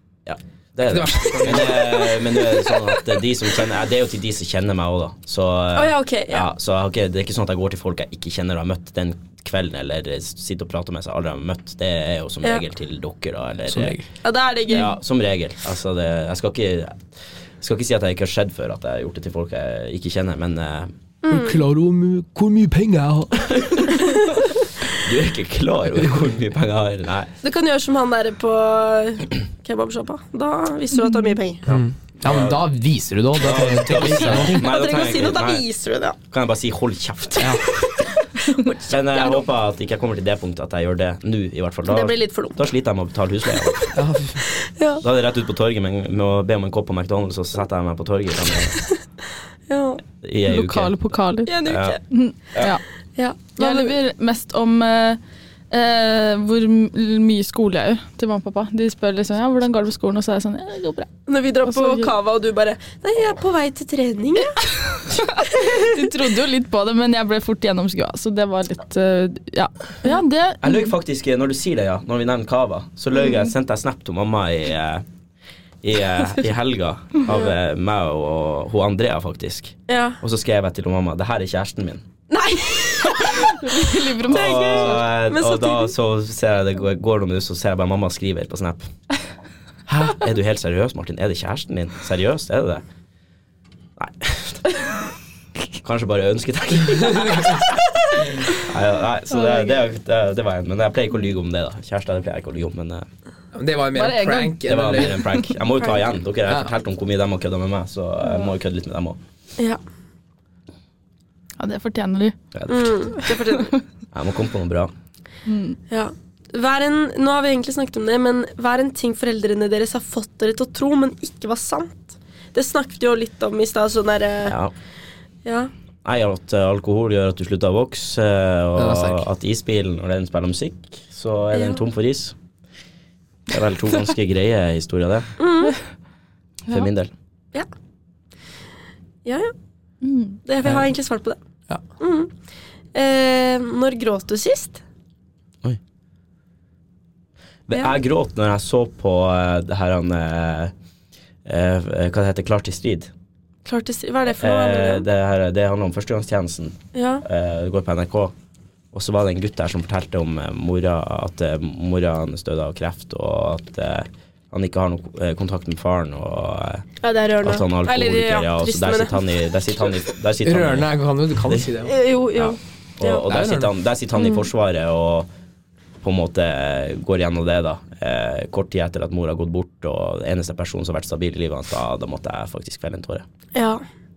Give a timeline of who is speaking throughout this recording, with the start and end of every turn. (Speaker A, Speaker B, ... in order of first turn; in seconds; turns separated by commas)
Speaker A: 0.2-14.0, Speaker B: 0.9-2.1, Speaker C: 2.1-3.0, Speaker C: 5.8-6.5, Speaker B: 13.7-14.1, Speaker C: 14.2-14.9, Speaker A: 14.7-17.1, Speaker A: 17.6-20.9, Speaker C: 21.2-21.6, Speaker B: 21.3-23.4, Speaker A: 23.3-24.1, Speaker A: 25.0-27.3, Speaker C: 27.4-31.6, Speaker D: 30.9-31.4, Speaker A: 31.6-32.6, Speaker B: 31.7-34.7, Speaker A: 33.4-35.6, Speaker C: 34.2-36.2, Speaker A: 36.3-37.9, Speaker C: 38.4-39.5, Speaker A: 38.9-44.0, Speaker C: 41.9-42.6, Speaker B: 43.9-44.4, Speaker C: 44.6-45.0, Speaker A: 45.0-48.8, Speaker C: 49.7-50.0, Speaker A: 50.2-51.1, Speaker D: 50.5-52.8, Speaker C: 51.5-52.0, Speaker A: 51.6-52.0, Speaker C: 53.2-54.0, Speaker D: 53.6-61.1, Speaker C: 61.3-64.6, Speaker D: 61.6-62.1, Speaker D: 64.9-70.9, Speaker C: 65.5-66.1, Speaker A: 70.6-75.0, Speaker A: 75.8-82.0, Speaker C: 79.9-80.2, Speaker C: 82.3-85.9, Speaker D: 83.2-85.1, Speaker A: 84.3-88.8, Speaker A: 89.9-92.8, Speaker A: 94.0-94.7, Speaker A: 95.8-103.0, Speaker B: 97.1-97.6, Speaker B: 103.5-105.2, Speaker D: 104.0-105.5, Speaker A: 104.7-109.2, Speaker D: 111.6-112.4, Speaker A: 112.5-113.1, Speaker C: 112.7-113.8, Speaker A: 114.1-114.9, Speaker D: 115.5-115.8, Speaker C: 115.9-124.6, Speaker A: 124.5-124.7, Speaker C: 125.5-125.7, Speaker A: 126.0-132.3, Speaker B: 128.8-129.2, Speaker C: 131.5-131.8, Speaker A: 133.5-135.3, Speaker C: 135.4-135.8, Speaker A: 136.7-137.1, Speaker C: 139.2-139.5, Speaker D: 140.0-140.4, Speaker C: 140.4-141.4, Speaker C: 142.0-142.3, Speaker C: 142.9-144.8, Speaker A: 147.7-150.7, Speaker A: 151.4-153.1, Speaker C: 153.7-155.1, Speaker A: 154.4-158.3, Speaker C: 156.9-157.2, Speaker A: 158.9-166.9, Speaker C: 167.0-169.3, Speaker A: 167.4-170.9, Speaker B: 170.4-171.9, Speaker C: 171.8-173.3, Speaker A: 172.3-175.3, Speaker B: 173.3-173.7, Speaker A: 176.0-183.2, Speaker C: 183.6-183.8